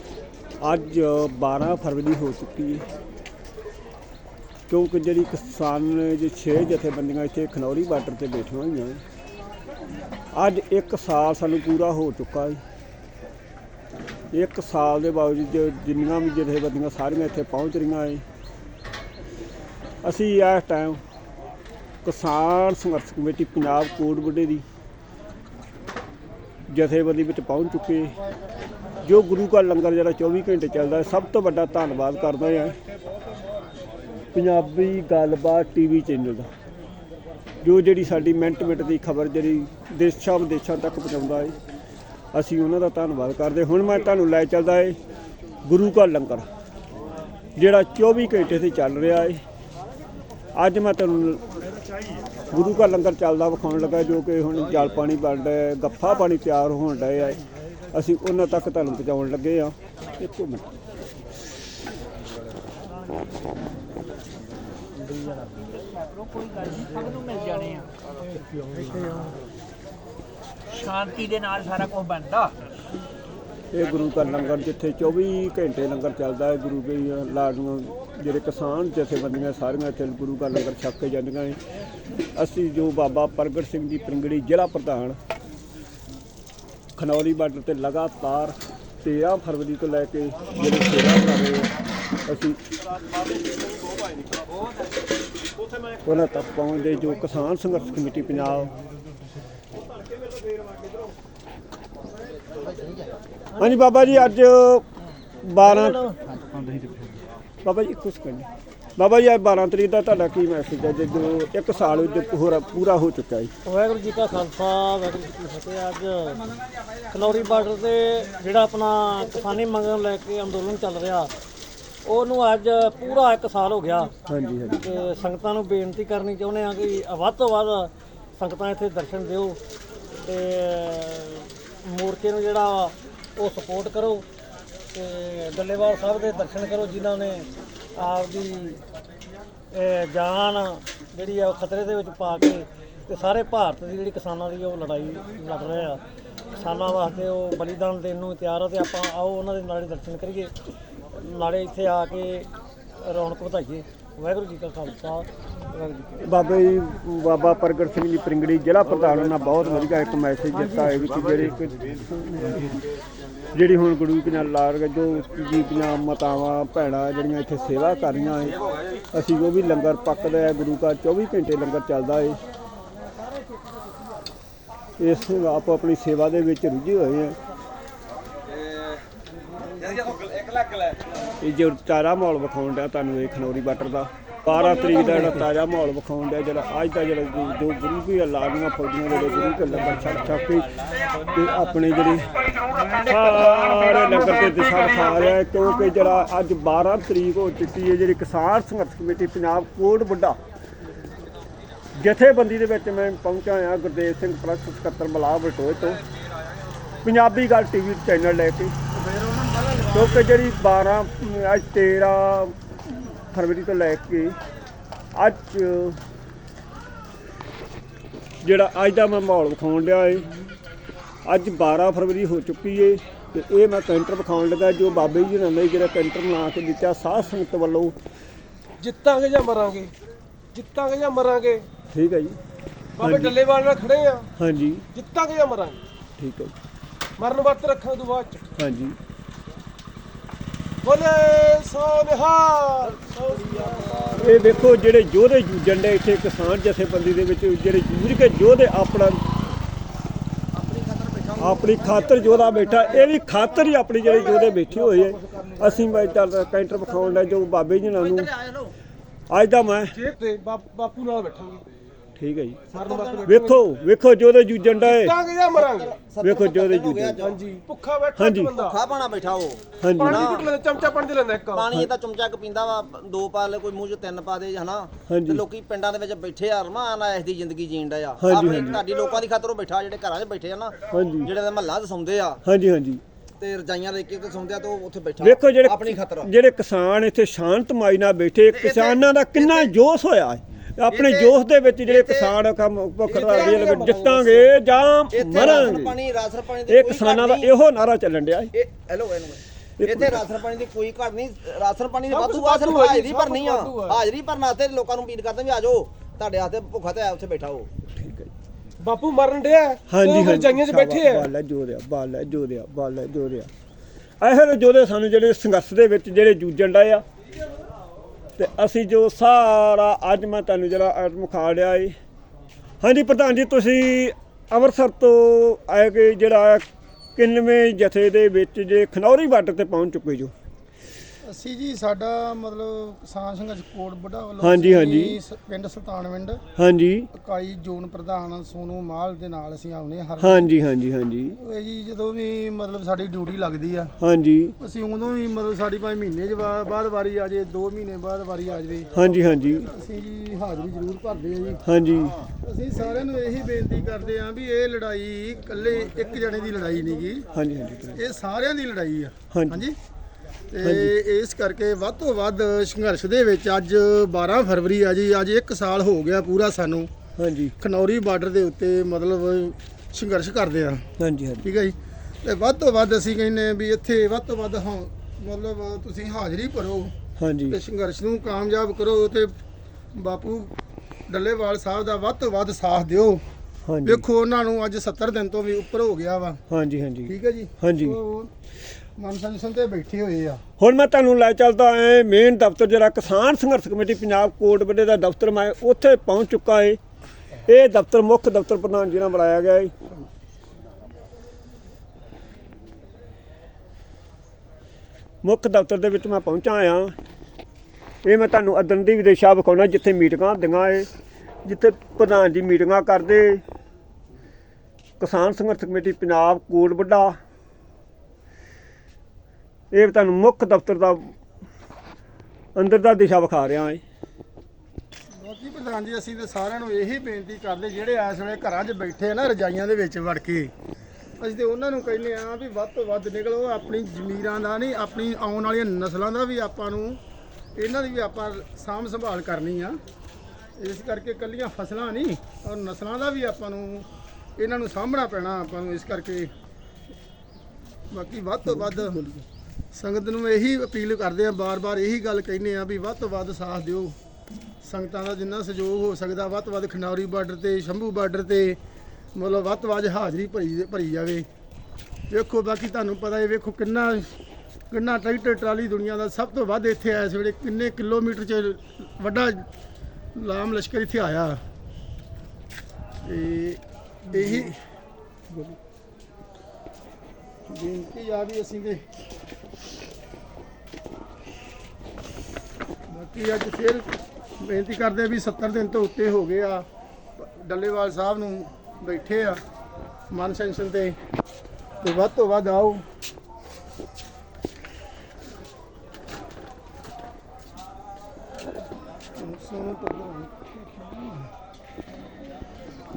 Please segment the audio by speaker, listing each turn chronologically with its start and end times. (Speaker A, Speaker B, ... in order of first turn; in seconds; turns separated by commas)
Speaker A: 0.6-2.9, Speaker A: 4.7-9.0, Speaker A: 10.3-12.6, Speaker A: 14.3-18.2, Speaker A: 20.0-21.0, Speaker A: 22.0-24.6, Speaker A: 26.7-28.1, Speaker A: 29.0-32.8, Speaker A: 34.3-36.5, Speaker A: 37.6-41.6, Speaker A: 42.3-45.0, Speaker A: 45.6-46.5, Speaker A: 47.6-49.4, Speaker A: 50.6-51.4, Speaker A: 52.5-57.4, Speaker A: 57.9-60.8, Speaker B: 65.6-67.9, Speaker B: 70.7-72.6, Speaker A: 73.7-81.6, Speaker A: 82.3-85.2, Speaker A: 87.0-91.7, Speaker A: 92.3-92.6, Speaker A: 96.0-98.7, Speaker C: 102.6-103.1, Speaker A: 103.6-104.9, Speaker A: 105.4-106.0, Speaker D: 105.6-106.2, Speaker A: 107.6-113.5, Speaker D: 113.7-116.5, Speaker D: 117.1-121.3, Speaker D: 122.0-124.1, Speaker A: 124.3-124.8, Speaker D: 124.7-129.6, Speaker D: 130.3-134.3, Speaker D: 134.9-138.8, Speaker D: 139.7-146.0, Speaker D: 146.6-150.5, Speaker D: 151.1-156.2, Speaker A: 156.2-162.8, Speaker D: 160.5-161.0, Speaker A: 163.5-168.6, Speaker A: 169.1-172.4, Speaker A: 175.0-177.4, Speaker A: 181.4-192.3, Speaker A: 193.0-200.4, Speaker A: 202.0-206.0, Speaker A: 207.0-208.7, Speaker E: 209.0-209.8, Speaker A: 209.8-214.4, Speaker A: 215.1-216.0, Speaker A: 218.4-220.3, Speaker A: 221.2-227.9, Speaker F: 228.8-229.9, Speaker F: 230.5-231.7, Speaker A: 231.9-232.4, Speaker A: 233.0-233.4, Speaker F: 233.0-234.3, Speaker A: 234.4-234.9, Speaker F: 235.0-235.8, Speaker A: 236.2-236.5, Speaker F: 237.2-238.4, Speaker A: 238.6-239.0, Speaker F: 240.8-243.8, Speaker C: 243.8-244.2, Speaker A: 244.2-249.2, Speaker C: 250.5-253.2, Speaker A: 251.4-258.3, Speaker C: 254.1-255.7, Speaker C: 257.9-258.7, Speaker A: 259.3-259.9, Speaker F: 260.0-261.6, Speaker A: 262.2-262.7, Speaker C: 262.7-263.3, Speaker F: 262.8-263.6, Speaker A: 263.2-265.2, Speaker F: 264.8-265.9, Speaker C: 265.5-267.4, Speaker A: 266.2-267.3, Speaker F: 267.2-268.8, Speaker A: 268.2-268.6, Speaker C: 268.5-270.5, Speaker A: 269.8-270.2, Speaker F: 270.0-271.6, Speaker C: 271.5-282.4, Speaker A: 275.1-275.4, Speaker A: 278.2-278.8, Speaker A: 280.9-281.3, Speaker A: 282.4-283.0, Speaker C: 283.4-286.3, Speaker A: 285.2-296.0, Speaker C: 288.5-289.7, Speaker C: 290.9-292.4, Speaker F: 293.1-294.5, Speaker C: 293.2-293.9, Speaker C: 295.1-297.5, Speaker A: 296.7-298.5, Speaker C: 298.5-307.7, Speaker A: 299.8-300.3, Speaker F: 302.1-304.0, Speaker A: 307.9-308.3, Speaker F: 308.8-311.1, Speaker A: 309.9-313.5, Speaker A: 314.2-317.0, Speaker A: 318.4-321.9, Speaker A: 322.8-326.6, Speaker A: 327.2-330.3, Speaker E: 331.2-336.4, Speaker A: 334.4-335.2, Speaker A: 336.6-337.1, Speaker E: 337.1-340.6, Speaker A: 340.2-341.4, Speaker E: 341.4-343.9, Speaker A: 344.0-344.6, Speaker E: 344.6-348.9, Speaker A: 348.9-349.7, Speaker E: 349.6-351.6, Speaker A: 351.6-352.2, Speaker E: 352.2-357.2, Speaker A: 357.3-358.0, Speaker E: 357.9-359.8, Speaker A: 359.3-359.6, Speaker E: 360.5-366.9, Speaker A: 360.6-360.9, Speaker A: 367.2-367.6, Speaker E: 367.6-370.9, Speaker A: 371.0-371.4, Speaker E: 371.4-376.9, Speaker A: 377.2-377.6, Speaker E: 377.5-379.3, Speaker E: 379.9-380.5, Speaker E: 381.1-383.2, Speaker A: 383.7-384.0, Speaker E: 383.8-386.4, Speaker A: 386.5-388.0, Speaker E: 387.1-388.3, Speaker E: 389.0-390.4, Speaker A: 390.6-396.8, Speaker A: 397.4-399.7, Speaker A: 405.2-406.9, Speaker A: 408.0-410.9, Speaker A: 411.4-413.4, Speaker A: 415.0-417.2, Speaker A: 419.7-421.1, Speaker A: 422.6-423.8, Speaker E: 425.1-430.5, Speaker E: 431.2-437.0, Speaker E: 437.6-439.8, Speaker E: 440.6-443.9, Speaker E: 444.4-446.3, Speaker E: 447.9-449.1, Speaker A: 448.5-449.2, Speaker E: 449.7-454.0, Speaker E: 454.6-458.6, Speaker E: 459.1-461.3, Speaker E: 462.1-464.2, Speaker E: 464.7-469.5, Speaker E: 470.1-471.4, Speaker E: 473.0-474.6, Speaker A: 474.1-474.6, Speaker A: 475.3-475.6, Speaker E: 477.5-478.9, Speaker E: 482.9-483.9, Speaker E: 484.4-486.7, Speaker E: 487.2-489.4, Speaker E: 490.1-491.0, Speaker E: 491.8-492.9, Speaker E: 499.2-501.3